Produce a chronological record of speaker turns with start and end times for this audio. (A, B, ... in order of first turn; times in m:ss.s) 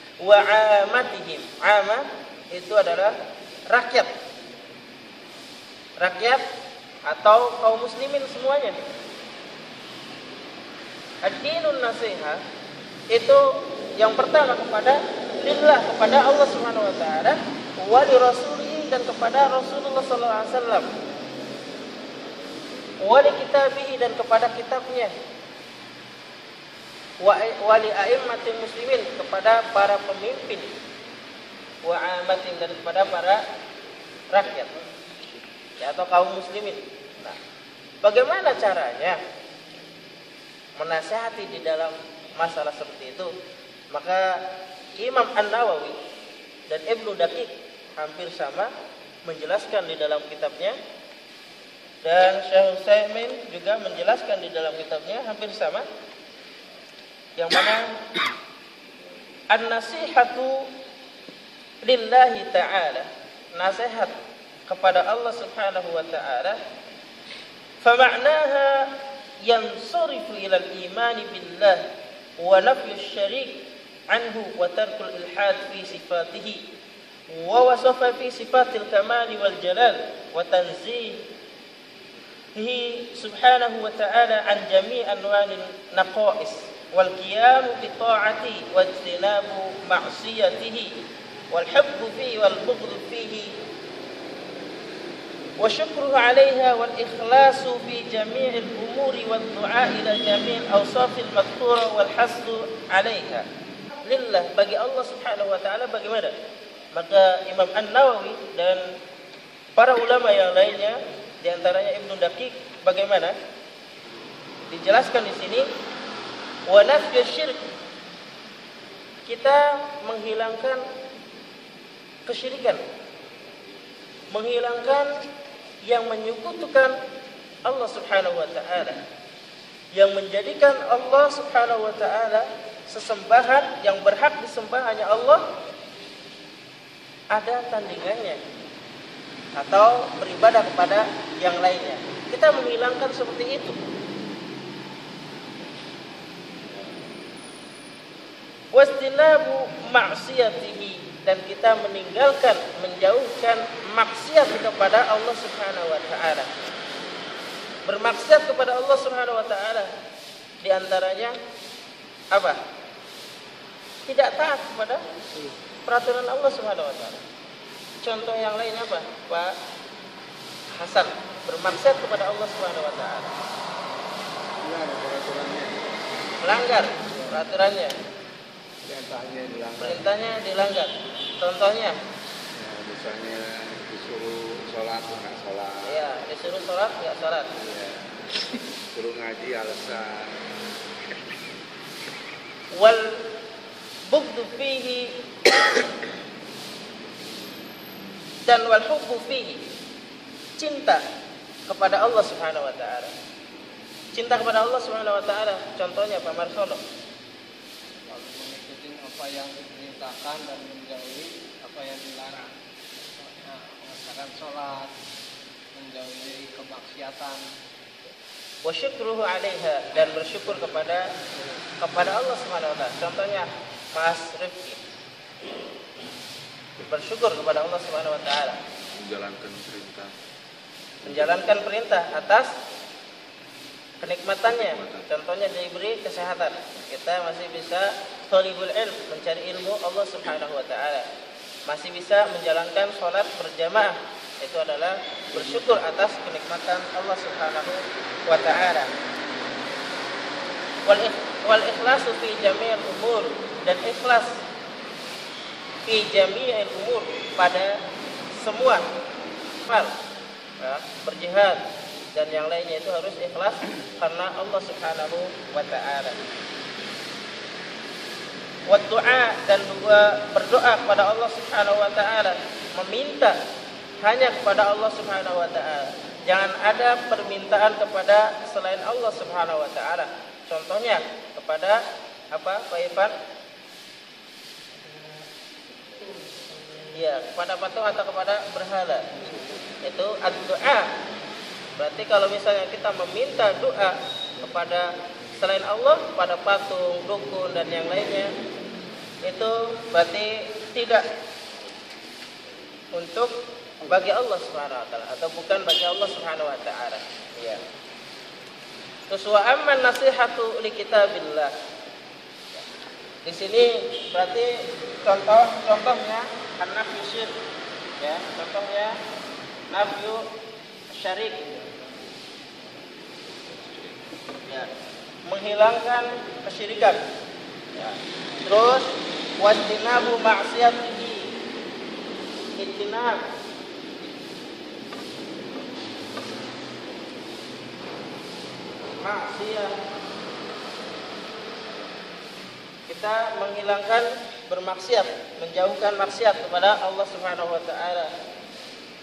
0:00.2-0:03.2 A
0:03.7-0:04.1 A
0:06.0-0:06.4 A
0:07.1-0:08.8 A
0:11.2-0:12.4 A
0:13.1-0:20.9 A
0:23.0-0:25.1 A
0:27.2-0:30.7 A
0:31.8-0:33.4 A
0:34.3-0:34.7 A
0:35.8-0:37.4 A
0:38.0-0:39.2 A
0:40.8-0:43.3 A
0:43.9-0:44.4 A
0:45.0-0:46.0 A
0:46.7-0:48.7 A
0:49.2-0:50.8 A
0:52.0-0:55.8 A
0:57.4-0:58.0 A
0:59.5-1:00.7 A
1:01.8-1:04.1 A
1:04.7-1:06.6 A
1:07.8-1:08.9 A
1:09.4-1:11.8 A
1:12.4-1:16.6 A
1:17.3-1:21.2 A
1:22.6-1:31.0 A
1:31.5-1:33.5 A
1:35.6-1:43.5 A
1:44.0-1:46.3 A
1:46.9-1:48.9 A
1:49.8-1:53.3 A
1:54.7-1:55.7 A
1:56.7-1:57.6 A
1:59.3-2:00.8 A
2:02.2-2:02.8 A
2:04.3-2:05.1 A
2:05.8-2:07.0 A
2:07.6-2:09.0 A
2:09.9-2:15.4 A
2:17.3-2:18.4 A
2:19.6-2:23.8 A
2:28.7-2:36.5 A
2:37.8-2:39.9 A
2:40.6-2:41.4 A
2:42.3-2:42.6 A
2:44.1-2:45.0 A
2:45.8-2:47.2 A
2:48.0-2:49.6 A
2:50.8-2:53.4 A
2:54.6-2:55.8 B
2:56.4-2:57.9 A
2:58.8-3:00.1 B
2:59.8-3:02.0 A
3:02.5-3:06.0 B
3:05.8-3:07.5 A
3:07.6-3:08.1 B
3:08.9-3:10.3 B
3:12.7-3:13.2 A
3:14.1-3:15.2 A
3:18.4-3:19.6 A
3:20.6-3:21.0 A
3:21.7-3:23.1 A
3:24.1-3:26.8 A
3:28.1-3:32.5 C
3:33.1-3:34.9 C
3:35.7-3:37.4 C
3:38.6-3:41.0 A
3:41.8-3:44.8 A
3:46.8-3:48.6 A
3:48.9-3:50.1 B
3:51.0-3:52.5 A
3:54.0-4:01.1 A
4:01.7-4:08.9 A
4:10.8-4:14.4 A
4:15.8-4:17.8 A
4:18.4-4:18.8 A
4:19.6-4:19.9 A
4:20.6-4:21.6 A
4:22.1-4:26.2 A
4:28.7-4:33.4 A
4:34.0-4:41.8 A
4:42.3-4:43.1 A
4:46.9-4:49.1 A
4:49.8-4:50.9 A
4:51.8-4:58.3 A
4:59.2-5:01.1 A
5:02.9-5:03.3 A
5:03.8-5:07.6 A
5:09.1-5:11.5 A
5:13.2-5:17.3 A
5:18.0-5:19.0 A
5:19.7-5:20.2 A
5:20.9-5:21.4 A
5:25.2-5:27.0 A
5:27.8-5:28.9 A
5:29.4-5:31.3 A
5:32.6-5:33.2 A
5:39.0-5:39.7 A
5:42.9-5:48.1 A